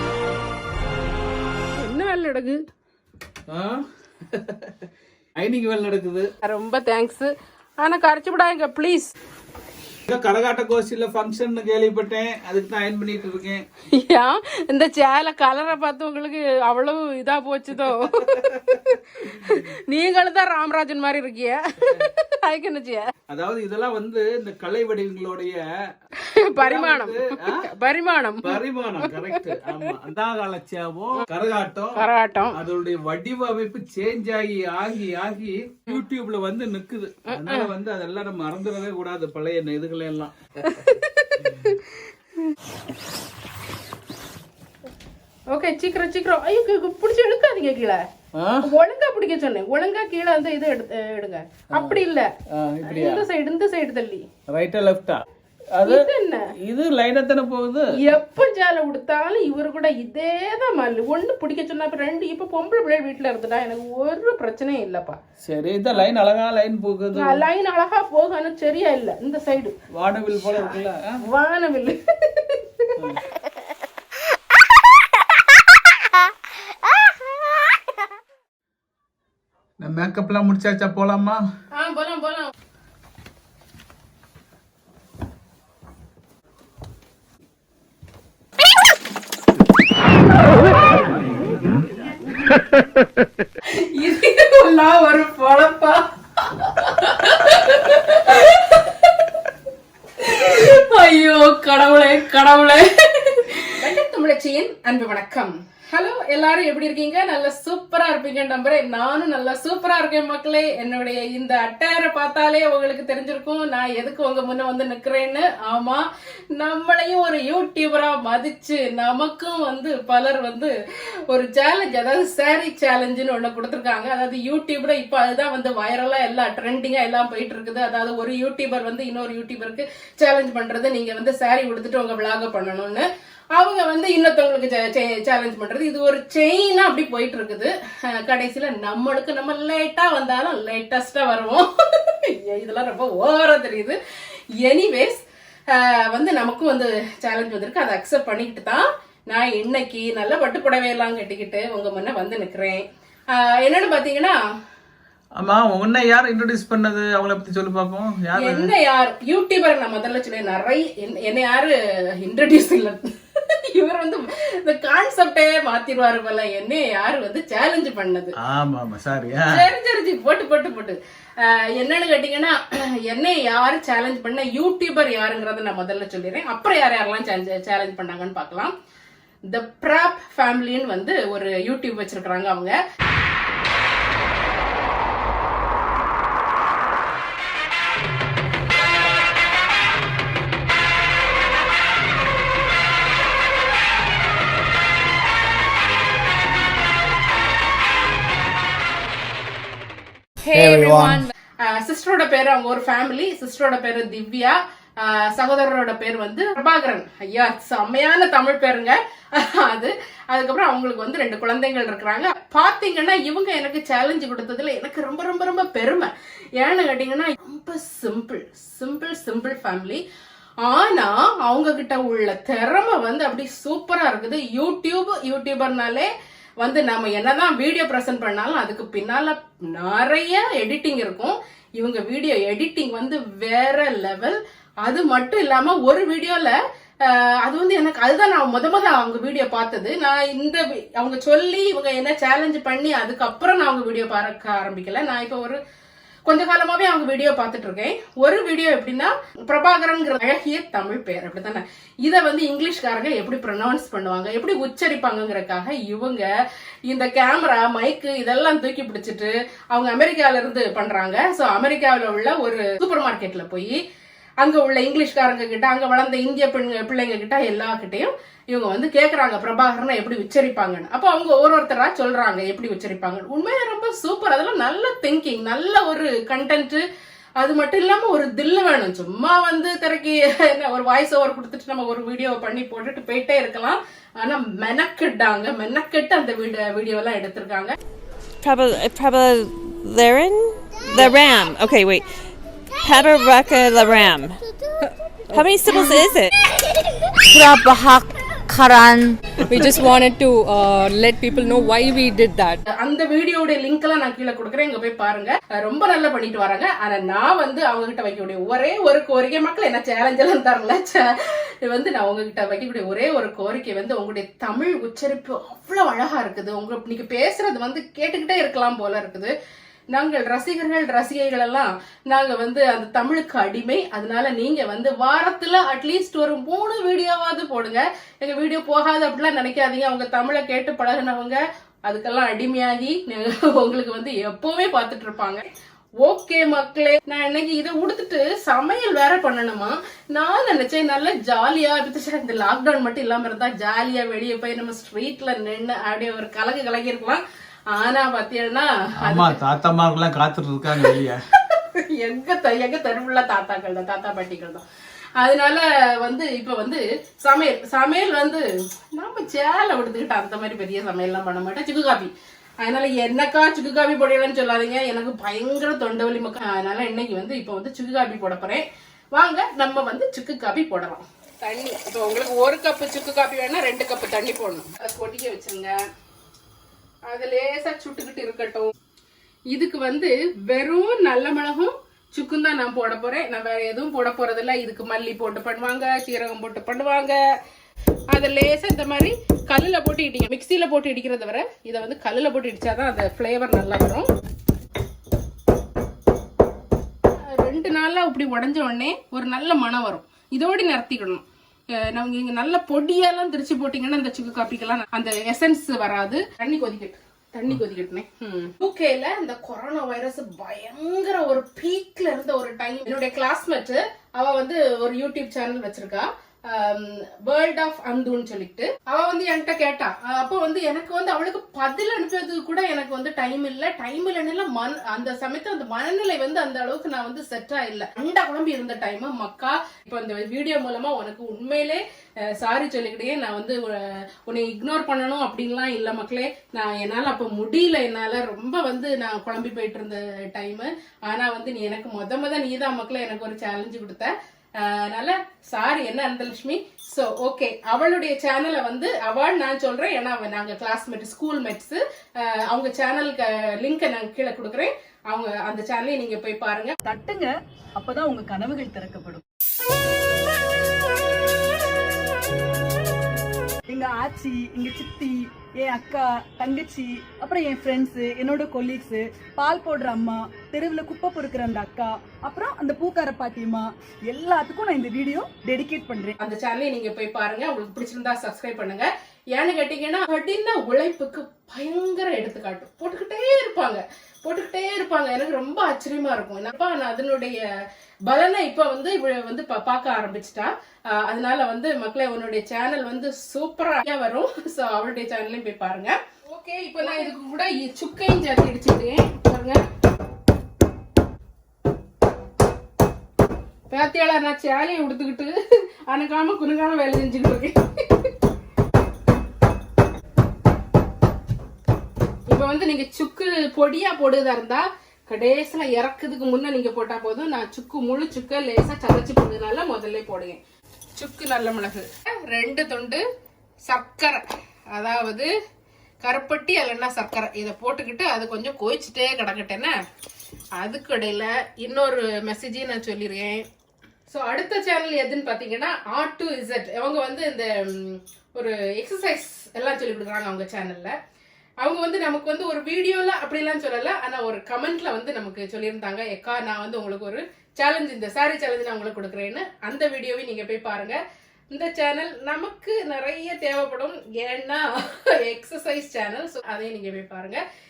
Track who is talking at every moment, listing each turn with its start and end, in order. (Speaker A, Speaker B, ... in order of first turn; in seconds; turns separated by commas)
Speaker A: 1.8-2.6, Speaker B: 3.5-4.8, Speaker B: 5.4-6.3, Speaker A: 6.4-7.3, Speaker A: 7.8-9.1, Speaker B: 10.1-13.6, Speaker A: 13.9-23.1, Speaker B: 18.2-18.6, Speaker B: 23.3-25.6, Speaker A: 26.2-29.5, Speaker B: 26.6-27.6, Speaker B: 28.4-40.3, Speaker A: 31.9-32.5, Speaker A: 37.4-37.7, Speaker A: 40.6-41.9, Speaker B: 41.4-41.7, Speaker A: 45.5-48.0, Speaker B: 48.4-48.7, Speaker A: 48.6-52.3, Speaker B: 51.7-52.0, Speaker B: 52.5-53.2, Speaker A: 52.9-54.2, Speaker B: 54.5-55.2, Speaker B: 55.7-56.1, Speaker A: 55.8-56.5, Speaker B: 56.6-57.9, Speaker A: 58.0-65.2, Speaker B: 65.4-67.4, Speaker A: 67.1-69.7, Speaker B: 69.9-71.2, Speaker A: 70.5-72.9, Speaker B: 73.0-73.2, Speaker B: 79.8-81.4, Speaker A: 81.8-82.5, Speaker A: 93.7-99.3, Speaker A: 100.2-116.0, Speaker A: 116.5-120.7, Speaker A: 121.3-144.0, Speaker A: 144.6-154.4, Speaker B: 155.4-158.7, Speaker A: 158.4-168.3, Speaker B: 168.4-169.7, Speaker A: 169.4-178.7, Speaker A: 179.5-182.8, Speaker A: 200.4-220.0, Speaker B: 200.5-201.2, Speaker A: 220.6-226.1, Speaker A: 226.6-245.6, Speaker A: 246.3-256.2, Speaker A: 256.9-263.8, Speaker A: 264.4-276.8, Speaker A: 277.4-287.8, Speaker C: 288.4-292.0, Speaker C: 292.8-294.4, Speaker D: 295.3-296.0, Speaker C: 295.3-296.3, Speaker D: 297.2-302.6, Speaker A: 302.7-319.3, Speaker A: 319.9-335.4, Speaker A: 336.0-347.2, Speaker A: 347.7-349.4, Speaker B: 349.0-351.2, Speaker A: 351.5-354.6, Speaker A: 355.2-358.4, Speaker A: 358.9-375.8, Speaker A: 377.1-378.7, Speaker A: 379.5-387.2, Speaker A: 388.1-394.1, Speaker A: 397.2-401.2, Speaker A: 401.7-456.8, Speaker E: 456.8-459.2, Speaker E: 463.7-476.2, Speaker A: 476.2-487.4, Speaker A: 488.1-499.6, Speaker A: 503.7-505.4, Speaker A: 505.9-508.1, Speaker A: 512.3-520.4, Speaker A: 521.0-523.0, Speaker A: 523.7-525.3, Speaker A: 526.0-529.7, Speaker A: 530.6-533.5, Speaker A: 534.1-540.9, Speaker A: 541.6-551.0, Speaker A: 551.5-557.4